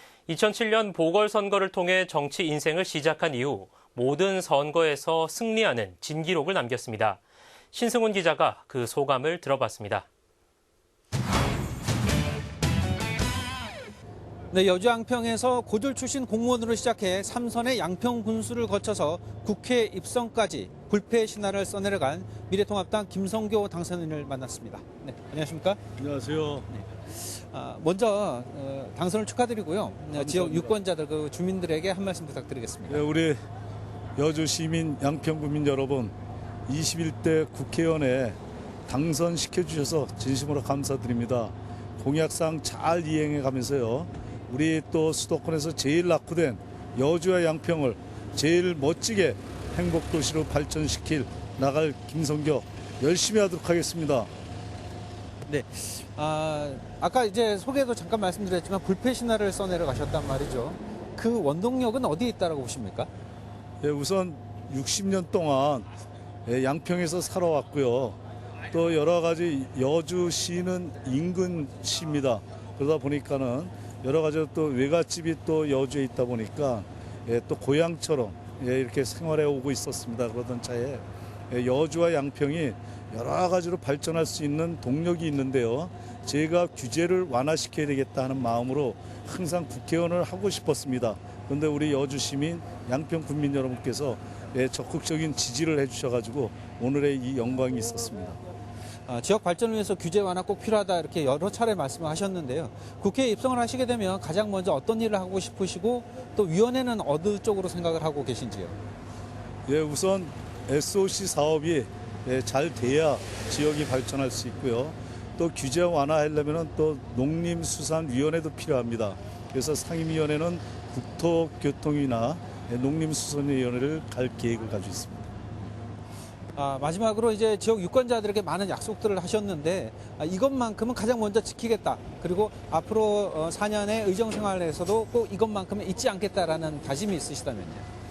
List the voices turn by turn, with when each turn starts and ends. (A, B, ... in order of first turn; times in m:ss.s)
0:00.3-0:07.2 A
0:07.7-0:10.0 A
0:14.5-0:25.8 B
0:26.0-0:26.7 C
0:26.7-0:33.1 B
0:30.2-0:30.7 C
0:32.9-0:33.4 C
0:34.2-0:36.1 C
0:36.7-0:54.3 C
0:55.4-1:03.1 B
1:03.8-1:05.9 C
1:06.4-1:08.2 C
1:08.7-1:38.4 C
1:39.0-1:48.8 B
1:49.7-2:05.3 C
2:06.6-2:17.9 B